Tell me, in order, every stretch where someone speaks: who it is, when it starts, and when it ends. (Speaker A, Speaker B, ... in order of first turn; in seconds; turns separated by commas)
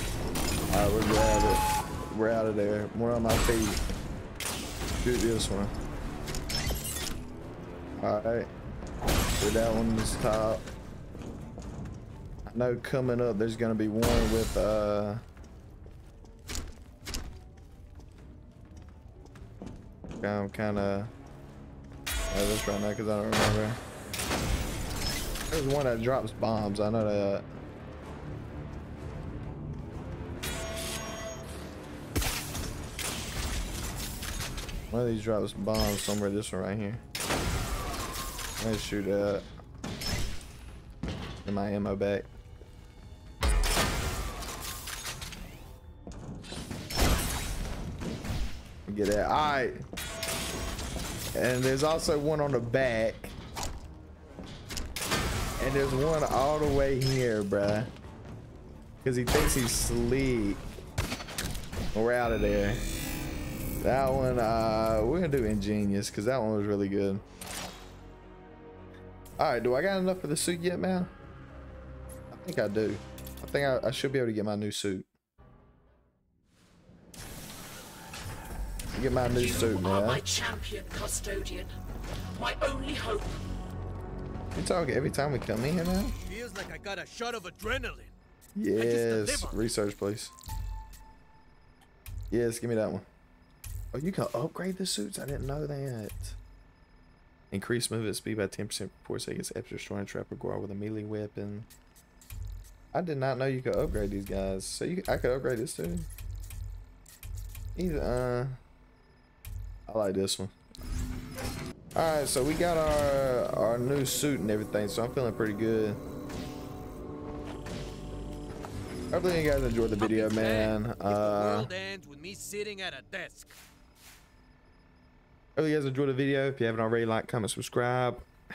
Speaker A: 0.7-3.8, Speaker A: 5.0-5.7, Speaker A: 8.0-8.5, Speaker A: 9.4-10.7, Speaker A: 12.5-15.2, Speaker A: 20.2-21.1, Speaker A: 22.3-23.8, Speaker A: 25.5-27.4, Speaker A: 34.9-37.0, Speaker A: 38.6-39.5, Speaker A: 41.4-42.3, Speaker A: 48.9-49.8, Speaker A: 51.4-53.4, Speaker A: 55.6-57.9, Speaker A: 59.0-60.6, Speaker A: 61.9-62.8, Speaker A: 63.8-67.2, Speaker A: 69.4-71.1, Speaker A: 72.3-75.1, Speaker A: 78.9-80.2, Speaker B: 79.2-81.7, Speaker B: 82.3-83.4, Speaker A: 84.5-86.1, Speaker C: 86.2-88.1, Speaker A: 88.5-90.3, Speaker C: 88.8-89.7, Speaker A: 92.3-93.0, Speaker A: 93.9-96.4, Speaker A: 97.5-101.7, Speaker A: 102.9-106.1, Speaker A: 107.8-108.6, Speaker A: 109.9-110.5, Speaker A: 111.9-116.0, Speaker A: 119.1-121.7, Speaker C: 120.0-123.5, Speaker A: 125.5-128.3